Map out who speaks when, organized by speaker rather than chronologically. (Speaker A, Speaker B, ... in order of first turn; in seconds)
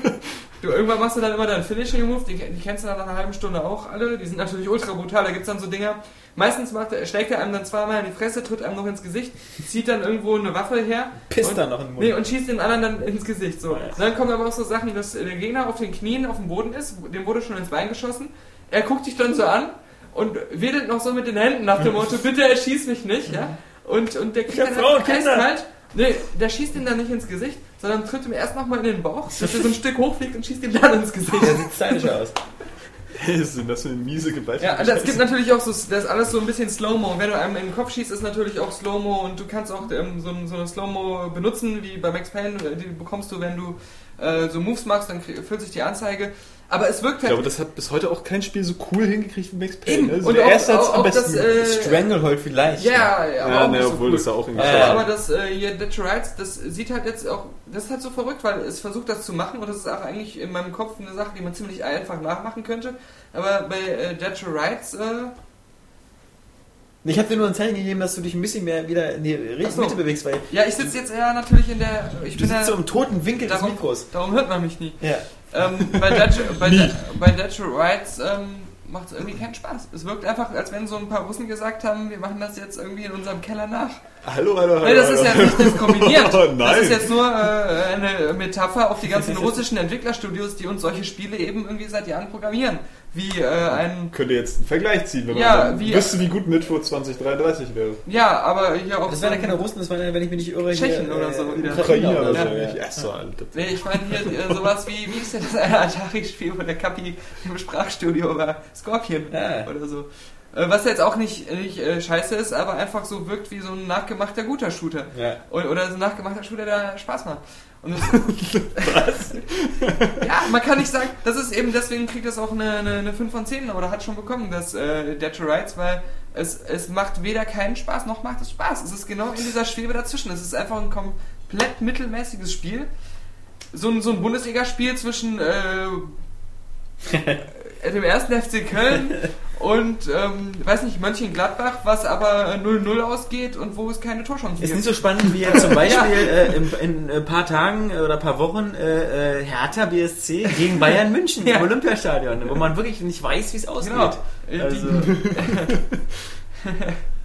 Speaker A: 0.6-32.1, 34.6-47.4, 49.8-52.0, 52.8-65.3, 69.6-84.0, 84.8-94.1, 95.3-96.2, 98.0-99.6, 100.7-102.5, 103.5-119.5, 120.1-132.9, 133.7-136.2, 137.6-146.3, 153.8-155.8, 156.6-157.0
Speaker B: 11.3-12.2, 13.7-14.0, 24.5-25.5, 29.4-29.7, 31.4-32.4, 51.5-53.1, 54.5-55.1, 67.0-71.0, 72.3-74.3, 75.0-75.3, 89.2-89.6, 99.1-102.9, 109.3-109.7, 115.1-115.4, 144.6-155.4
Speaker C: 33.1-35.2, 47.2-51.5, 53.4-55.1, 76.6-77.0, 84.2-87.5, 94.1-98.0, 101.6-104.3, 118.2-118.6, 119.6-120.1